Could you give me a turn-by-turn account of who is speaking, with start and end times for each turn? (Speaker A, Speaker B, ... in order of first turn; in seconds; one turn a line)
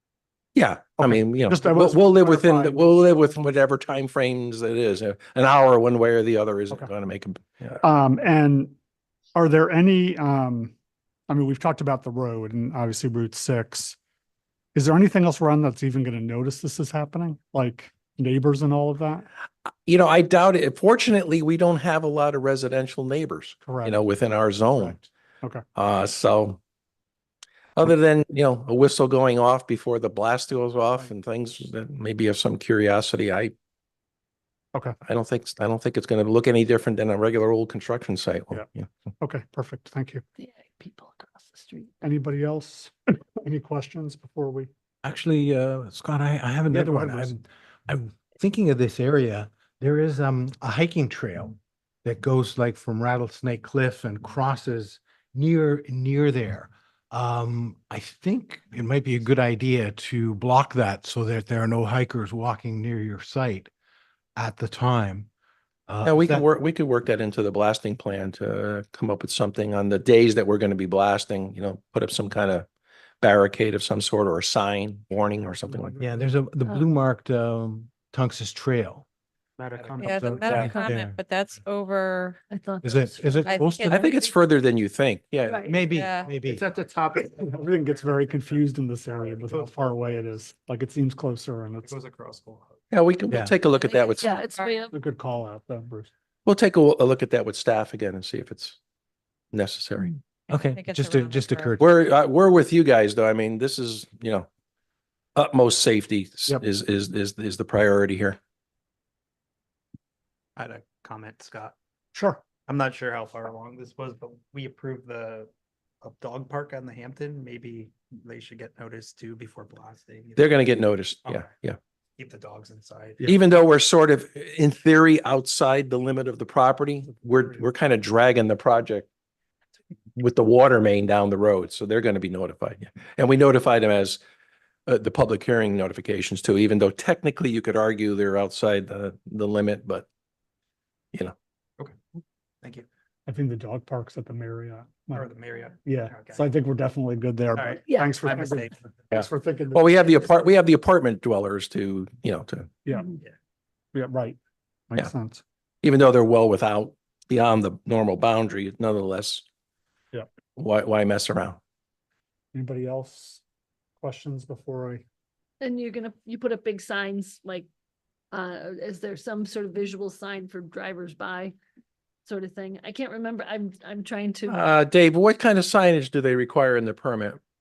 Speaker A: 0.5-7.8
Speaker B: 1.0-3.0
Speaker B: 7.8-8.7
Speaker B: 9.3-10.7
Speaker B: 11.3-14.0
Speaker B: 14.7-19.3
Speaker A: 19.9-25.0
Speaker B: 23.6-24.0
Speaker B: 24.7-25.6
Speaker A: 25.8-26.6
Speaker A: 27.8-33.5
Speaker A: 35.0-38.9
Speaker B: 39.2-40.2
Speaker C: 40.8-41.9
Speaker B: 42.0-44.7
Speaker D: 45.0-63.7
Speaker B: 46.7-47.3
Speaker D: 64.3-65.3
Speaker D: 65.9-66.5
Speaker A: 66.0-72.7
Speaker A: 73.2-76.0
Speaker D: 76.0-79.0
Speaker E: 79.6-80.6
Speaker F: 79.9-82.4
Speaker D: 80.0-81.2
Speaker C: 82.5-83.3
Speaker D: 82.8-84.0
Speaker F: 83.4-84.3
Speaker A: 83.8-85.7
Speaker C: 85.5-85.7
Speaker D: 85.7-86.6
Speaker F: 85.8-86.3
Speaker E: 86.6-87.3
Speaker B: 87.3-91.9
Speaker E: 89.5-90.1
Speaker E: 91.8-92.7
Speaker A: 92.9-94.3
Speaker F: 93.7-94.8
Speaker C: 94.2-94.9
Speaker B: 94.9-96.1
Speaker A: 96.5-98.8
Speaker A: 99.5-100.1
Speaker D: 100.5-101.9
Speaker F: 100.5-101.7
Speaker A: 101.8-104.5
Speaker A: 105.3-108.4
Speaker E: 110.6-111.7
Speaker B: 112.1-112.4
Speaker E: 112.5-115.5
Speaker E: 116.0-121.4
Speaker A: 120.3-121.8
Speaker E: 122.2-123.4
Speaker A: 123.2-129.1
Speaker A: 130.2-134.2
Speaker A: 134.9-140.1
Speaker B: 143.2-145.3
Speaker E: 145.1-146.5
Speaker B: 145.8-149.9
Speaker E: 147.6-148.9
Speaker A: 149.1-152.8
Speaker B: 153.9-154.4
Speaker B: 154.9-155.4
Speaker A: 155.8-159.4
Speaker A: 160.6-161.6
Speaker B: 162.5-163.4
Speaker B: 164.0-165.0
Speaker C: 165.6-167.7
Speaker C: 168.3-171.5
Speaker C: 172.2-174.6
Speaker A: 174.5-177.4